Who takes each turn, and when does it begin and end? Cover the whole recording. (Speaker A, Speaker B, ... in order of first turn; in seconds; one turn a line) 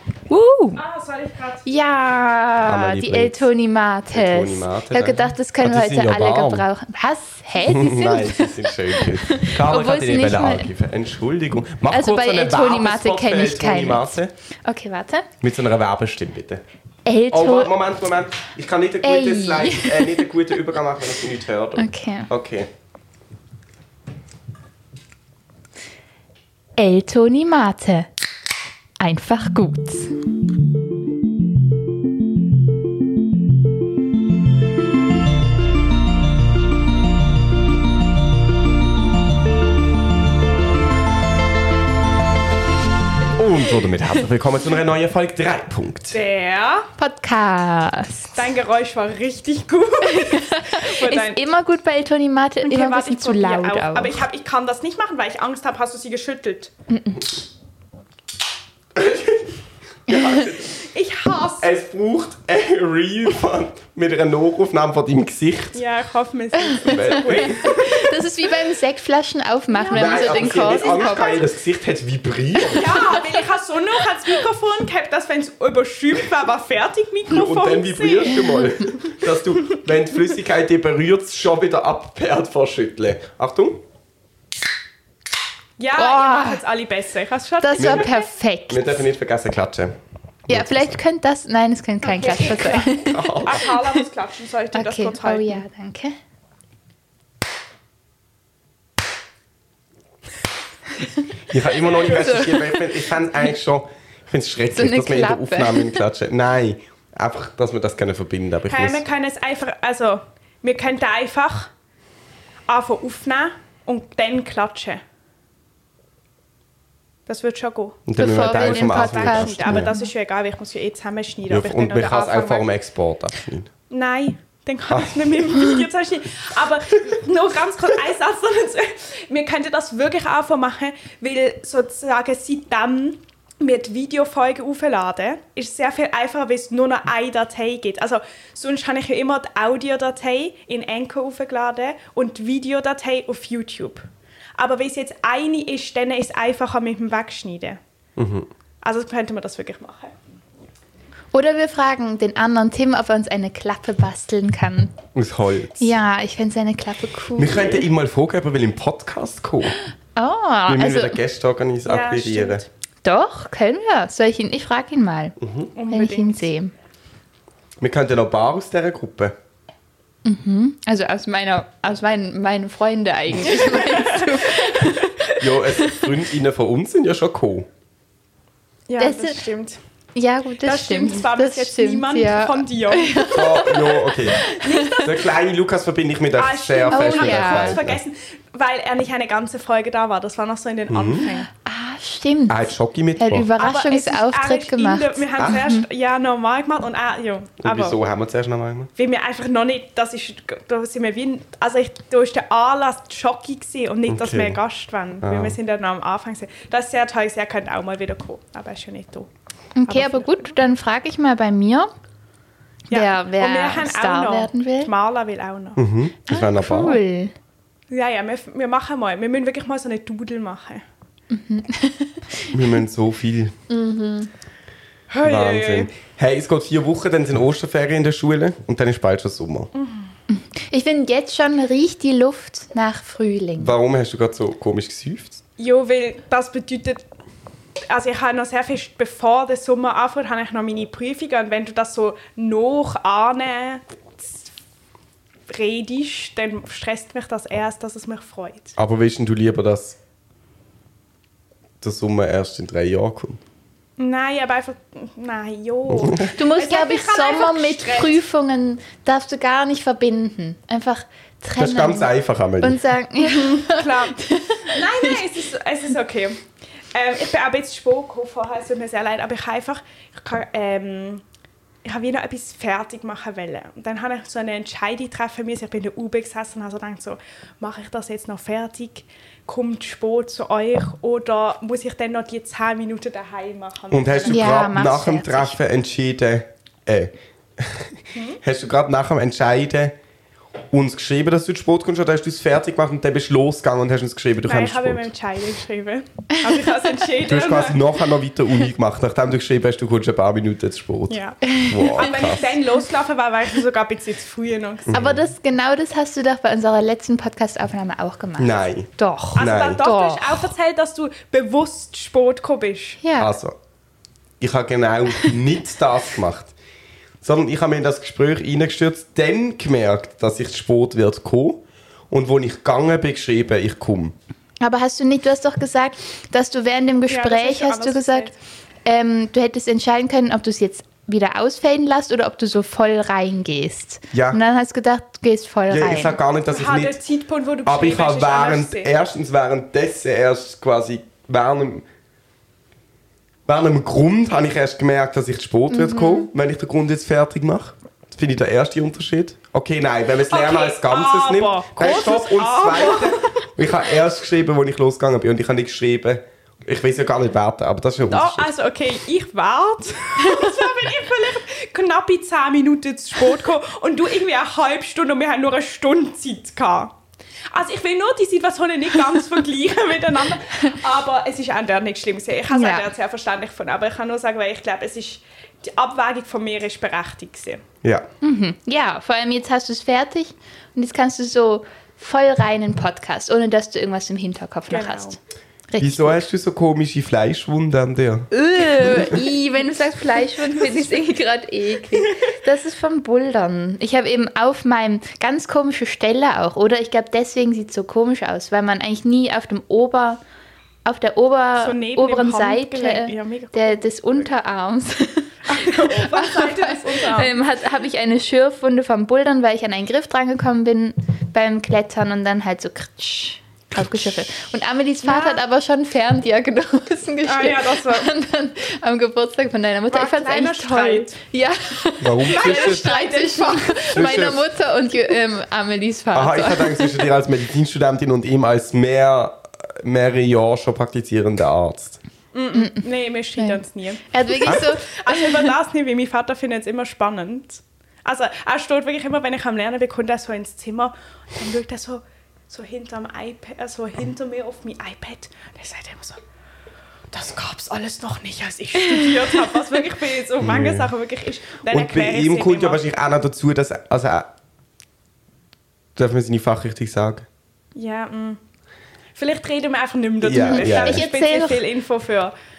Speaker A: 0.3-0.8
Speaker B: 0.8-1.7
Speaker A: 1.7-10.7
Speaker C: 2.6-3.5
Speaker C: 4.1-6.7
Speaker C: 7.6-14.3
Speaker A: 11.9-14.1
Speaker A: 14.7-15.3
Speaker C: 15.4-16.6
Speaker A: 17.1-17.8
Speaker C: 17.3-22.7
Speaker A: 19.0-20.2
Speaker A: 21.8-22.3
Speaker A: 26.8-28.1
Speaker A: 29.0-30.1
Speaker C: 43.4-46.2
Speaker B: 46.1-46.9
Speaker A: 47.0-48.4
Speaker B: 48.4-51.4
Speaker A: 50.0-54.2
Speaker B: 52.6-56.7
Speaker A: 56.9-57.3
Speaker C: 59.0-60.9
Speaker A: 60.1-60.5
Speaker B: 60.8-61.7
Speaker C: 61.6-65.8
Speaker B: 65.7-67.8
Speaker A: 66.6-71.5
Speaker C: 66.8-67.9
Speaker B: 69.8-71.4
Speaker C: 69.9-73.0
Speaker A: 72.7-73.3
Speaker B: 72.7-78.7
Speaker C: 77.3-83.8
Speaker B: 85.8-88.3
Speaker A: 86.0-86.6
Speaker A: 87.6-89.1
Speaker C: 87.8-88.1
Speaker C: 88.7-90.0
Speaker C: 90.5-91.0
Speaker A: 90.5-94.0
Speaker B: 92.0-95.6
Speaker C: 92.9-93.6
Speaker A: 94.7-96.2
Speaker C: 101.5-109.1
Speaker A: 101.9-102.9
Speaker A: 104.7-106.0
Speaker B: 108.7-111.7
Speaker B: 112.7-115.0
Speaker B: 117.3-122.7
Speaker C: 118.1-119.9
Speaker A: 118.2-120.1
Speaker C: 121.5-123.7
Speaker B: 123.9-147.8
Speaker C: 124.9-125.3
Speaker C: 148.2-148.5
Speaker B: 148.8-150.1
Speaker A: 151.3-155.0
Speaker C: 155.1-155.9
Speaker A: 155.8-157.9
Speaker C: 157.4-159.8
Speaker A: 160.2-161.2
Speaker C: 160.7-162.6
Speaker B: 161.9-162.7
Speaker A: 163.1-165.4
Speaker C: 165.4-165.7
Speaker B: 165.8-166.5
Speaker A: 165.9-166.7
Speaker C: 167.8-169.3
Speaker A: 170.2-176.1
Speaker B: 173.6-175.3
Speaker C: 175.3-177.7
Speaker B: 178.9-179.8
Speaker A: 179.0-179.4
Speaker A: 180.2-185.1
Speaker B: 180.7-183.9
Speaker C: 183.3-184.4
Speaker B: 184.4-185.3
Speaker C: 185.0-188.0
Speaker B: 186.4-191.5
Speaker A: 186.9-187.8
Speaker C: 190.9-191.3
Speaker A: 191.2-195.8
Speaker C: 192.5-193.5
Speaker B: 193.6-198.0
Speaker C: 197.6-198.9
Speaker B: 199.0-209.3
Speaker C: 204.1-204.6
Speaker C: 205.2-205.6
Speaker A: 209.8-211.9
Speaker B: 209.9-210.6
Speaker B: 212.9-215.8
Speaker A: 212.9-214.9
Speaker C: 215.8-217.0
Speaker A: 216.3-217.3
Speaker B: 217.9-220.8
Speaker A: 221.3-222.6
Speaker C: 222.5-223.6
Speaker A: 223.7-224.3
Speaker B: 225.1-225.9
Speaker C: 225.2-229.7
Speaker B: 229.8-230.1
Speaker A: 230.3-233.7
Speaker C: 233.6-235.4
Speaker B: 235.6-237.0
Speaker B: 237.9-244.4
Speaker B: 245.5-248.7
Speaker C: 248.8-250.0
Speaker C: 251.8-253.4
Speaker B: 254.0-258.2
Speaker C: 255.9-256.3
Speaker A: 256.3-265.2
Speaker C: 261.6-262.8
Speaker B: 263.2-266.4
Speaker B: 266.9-271.2
Speaker B: 271.8-284.6
Speaker C: 283.9-289.9
Speaker A: 284.3-285.6
Speaker B: 288.1-288.4
Speaker C: 290.7-295.1
Speaker B: 294.5-297.8
Speaker C: 297.3-302.5
Speaker B: 301.1-301.4
Speaker A: 301.4-302.5
Speaker B: 301.9-305.0
Speaker C: 304.9-305.2
Speaker A: 304.9-310.5
Speaker C: 308.4-309.9
Speaker B: 309.4-313.0
Speaker A: 313.0-313.3
Speaker C: 313.2-313.6
Speaker C: 314.4-316.5
Speaker C: 317.2-324.1
Speaker A: 324.6-328.3
Speaker B: 327.1-328.4
Speaker A: 328.9-336.2
Speaker C: 334.1-334.4
Speaker C: 335.7-337.0
Speaker B: 336.5-338.9
Speaker C: 337.7-341.9
Speaker C: 343.5-358.5
Speaker A: 345.7-346.3
Speaker B: 350.3-353.2
Speaker B: 358.1-366.9
Speaker A: 360.3-360.7
Speaker B: 367.5-377.6
Speaker A: 372.5-372.9
Speaker A: 378.2-385.2
Speaker B: 384.7-385.2
Speaker A: 385.7-386.2
Speaker C: 385.8-388.3
Speaker A: 388.3-400.2
Speaker C: 388.8-389.2
Speaker A: 400.9-427.1
Speaker B: 401.6-404.3
Speaker B: 405.5-407.4
Speaker B: 415.0-415.4
Speaker B: 417.3-418.1
Speaker B: 419.9-421.2
Speaker C: 422.0-422.9
Speaker B: 422.3-424.2
Speaker C: 423.9-424.4
Speaker C: 426.1-432.0
Speaker B: 432.3-446.2
Speaker A: 432.5-432.9
Speaker A: 433.4-435.5
Speaker B: 447.1-452.8
Speaker C: 450.4-450.9
Speaker C: 451.7-454.3
Speaker C: 456.0-457.3
Speaker B: 457.8-458.4
Speaker B: 459.2-462.3
Speaker C: 460.2-461.1
Speaker A: 460.3-461.6